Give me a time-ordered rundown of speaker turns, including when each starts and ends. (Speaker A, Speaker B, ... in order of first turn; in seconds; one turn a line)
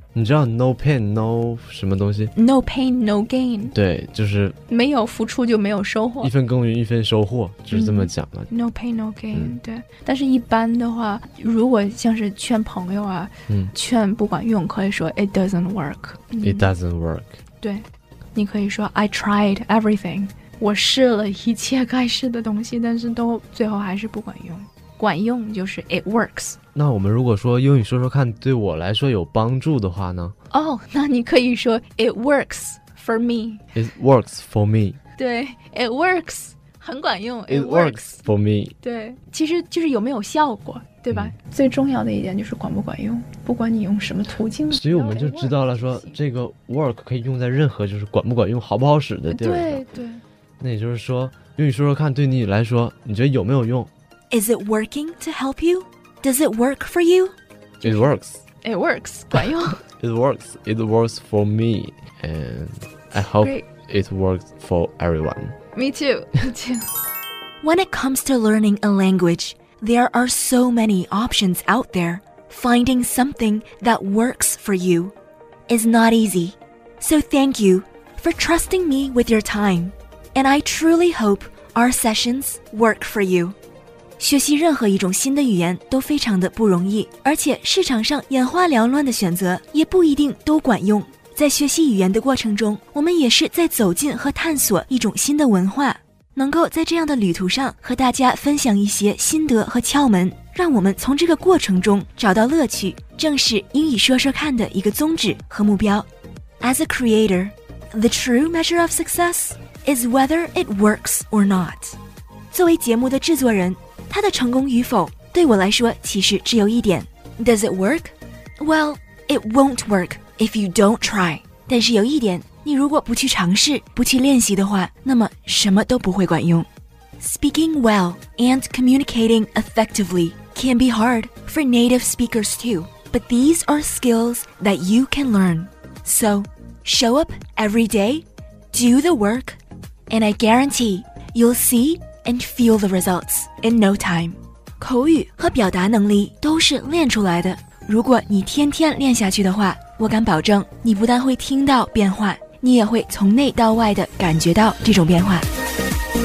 Speaker A: 0.1-2.3
Speaker B: 2.4-3.8
Speaker A: 3.7-4.6
Speaker B: 4.7-6.3
Speaker A: 6.2-8.5
Speaker B: 7.7-16.7
Speaker A: 16.4-17.4
Speaker B: 17.6-26.6
Speaker A: 26.8-30.3
Speaker B: 30.5-33.6
Speaker A: 33.7-35.0
Speaker B: 35.2-38.2
Speaker A: 37.5-38.8
Speaker B: 38.8-46.2
Speaker A: 44.7-49.9
Speaker B: 49.3-50.2
Speaker A: 50.6-53.9
Speaker C: 54.3-57.3
Speaker A: 57.8-58.4
Speaker B: 57.8-58.1
Speaker B: 58.6-59.8
Speaker A: 60.0-65.6
Speaker B: 63.4-63.6
Speaker B: 65.7-66.9
Speaker C: 67.6-75.1
Speaker C: 75.7-83.6
Speaker C: 84.2-106.1
Speaker C: 106.6-112.0
Speaker C: 112.5-126.7
Speaker C: 127.2-139.6
Speaker C: 140.1-155.5